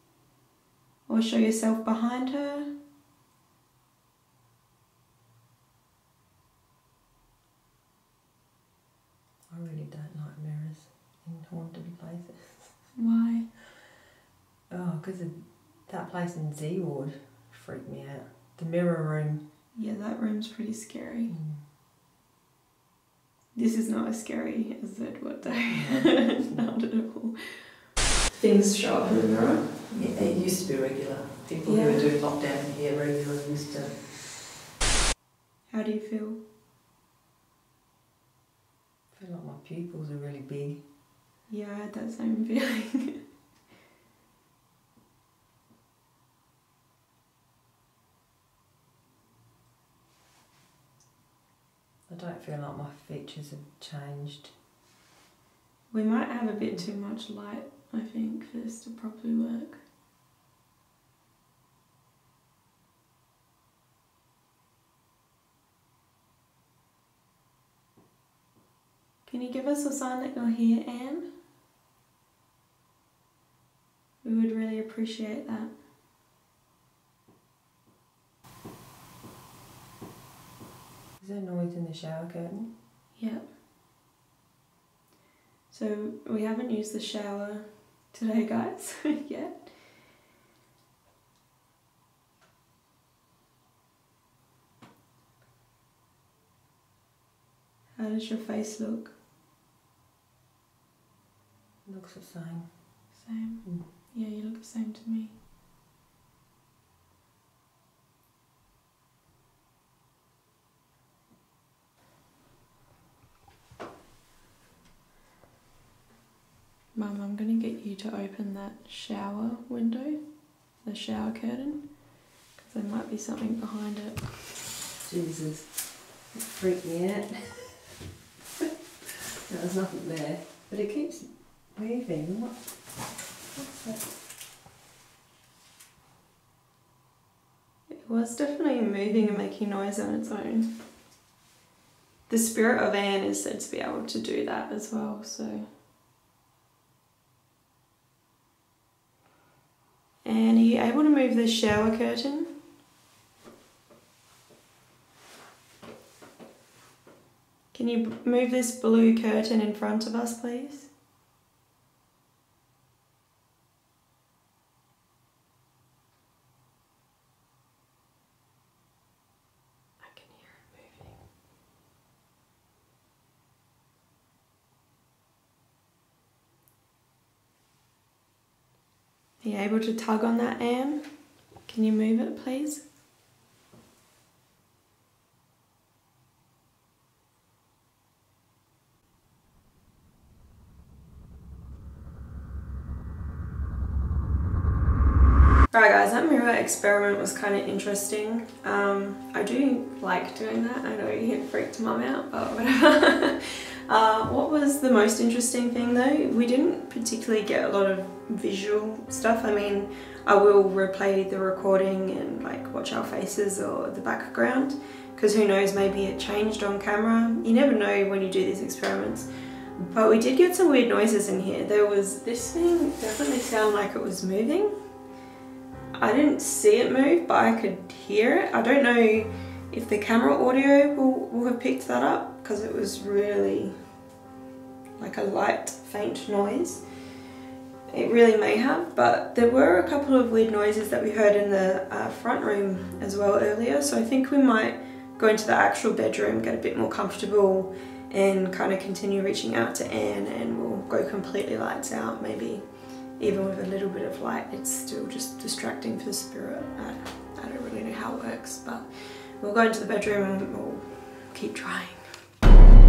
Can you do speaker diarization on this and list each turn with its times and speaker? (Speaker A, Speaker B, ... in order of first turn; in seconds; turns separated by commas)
Speaker A: 1.1-2.7, Speaker B: 9.5-12.8, Speaker A: 12.9-13.5, Speaker B: 14.7-19.5, Speaker A: 19.7-21.3, Speaker B: 21.3-21.6, Speaker A: 23.5-27.7, Speaker B: 25.5-26.7, Speaker A: 28.3-29.8, Speaker B: 29.8-34.3, Speaker A: 31.6-32.1, Speaker A: 35.7-36.4, Speaker B: 39.1-40.9, Speaker A: 41.5-43.2, Speaker B: 52.1-54.5, Speaker A: 55.9-59.8, Speaker A: 69.2-71.3, Speaker A: 74.2-75.7, Speaker B: 81.2-82.7, Speaker A: 83.2-83.5, Speaker A: 85.7-89.7, Speaker A: 98.0-99.1, Speaker B: 101.8-102.8, Speaker A: 103.2-105.3, Speaker A: 116.9-120.2, Speaker A: 120.8-121.8, Speaker A: 122.6-124.4, Speaker B: 125.0-127.9, Speaker B: 129.5-132.7, Speaker B: 133.5-134.1, Speaker A: 137.9-140.7, Speaker A: 142.3-145.7, Speaker A: 150.2-152.5, Speaker A: 157.7-160.9, Speaker A: 170.0-171.1, Speaker A: 179.4-181.1, Speaker A: 181.7-182.8, Speaker A: 195.7-224.7, Speaker A: 226.0-233.7, Speaker A: 235.0-236.8, Speaker A: 237.9-252.6, Speaker A: 253.2-258.9, Speaker A: 259.4-262.0